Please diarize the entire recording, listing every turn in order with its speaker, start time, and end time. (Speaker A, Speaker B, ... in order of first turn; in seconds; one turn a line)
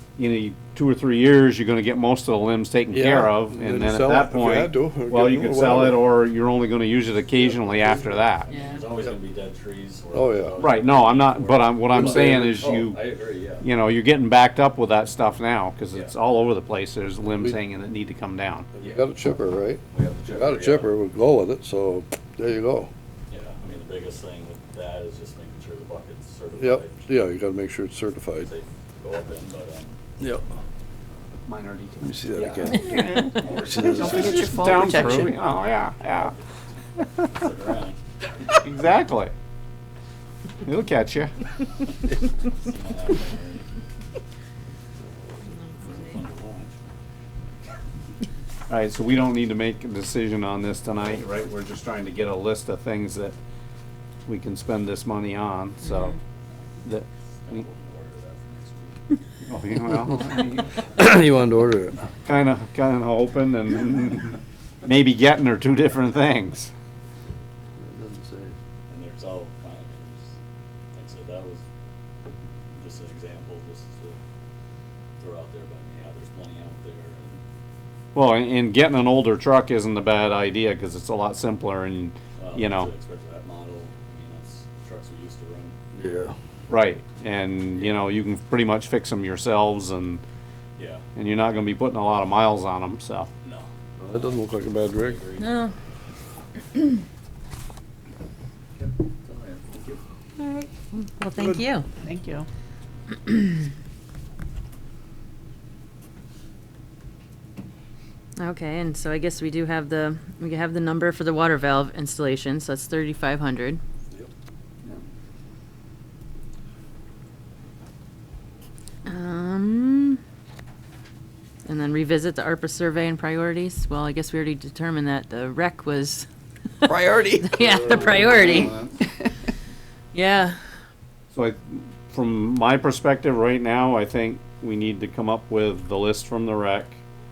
Speaker A: 0.2-8.5
Speaker B: 2.9-6.0
Speaker B: 7.3-8.1
Speaker C: 8.4-13.7
Speaker D: 8.5-8.8
Speaker B: 10.1-10.6
Speaker A: 10.6-13.1
Speaker B: 11.9-12.7
Speaker A: 13.6-18.7
Speaker B: 18.8-22.9
Speaker C: 18.8-19.1
Speaker C: 19.9-20.9
Speaker C: 23.3-27.0
Speaker B: 26.6-28.5
Speaker C: 28.4-30.0
Speaker A: 31.5-36.4
Speaker B: 32.0-35.1
Speaker E: 33.8-35.4
Speaker C: 37.3-38.0
Speaker A: 38.6-39.3
Speaker A: 40.6-41.3
Speaker C: 42.4-43.7
Speaker C: 45.6-46.8
Speaker A: 48.7-53.4
Speaker A: 54.3-56.2
Speaker A: 56.9-57.6
Speaker C: 57.4-59.1
Speaker A: 59.5-60.8
Speaker B: 60.9-62.0
Speaker A: 62.2-66.7
Speaker B: 67.8-68.6
Speaker C: 68.9-70.3
Speaker C: 71.0-71.7
Speaker C: 72.8-74.2
Speaker C: 75.2-77.4
Speaker A: 78.2-82.9
Speaker C: 82.4-85.8
Speaker B: 86.0-86.3
Speaker A: 86.7-90.2
Speaker C: 90.8-91.0
Speaker A: 91.2-93.3
Speaker C: 93.4-95.6
Speaker B: 94.0-95.2
Speaker D: 95.4-95.7
Speaker C: 98.8-100.0
Speaker D: 100.4-101.9
Speaker E: 102.0-102.5
Speaker D: 108.4-113.8
Speaker D: 119.1-120.2
Speaker D: 121.7-126.3
Speaker E: 126.8-129.1
Speaker D: 127.4-128.8
Speaker B: 127.6-128.1
Speaker A: 127.9-129.0
Speaker D: 130.1-130.6
Speaker A: 131.3-137.0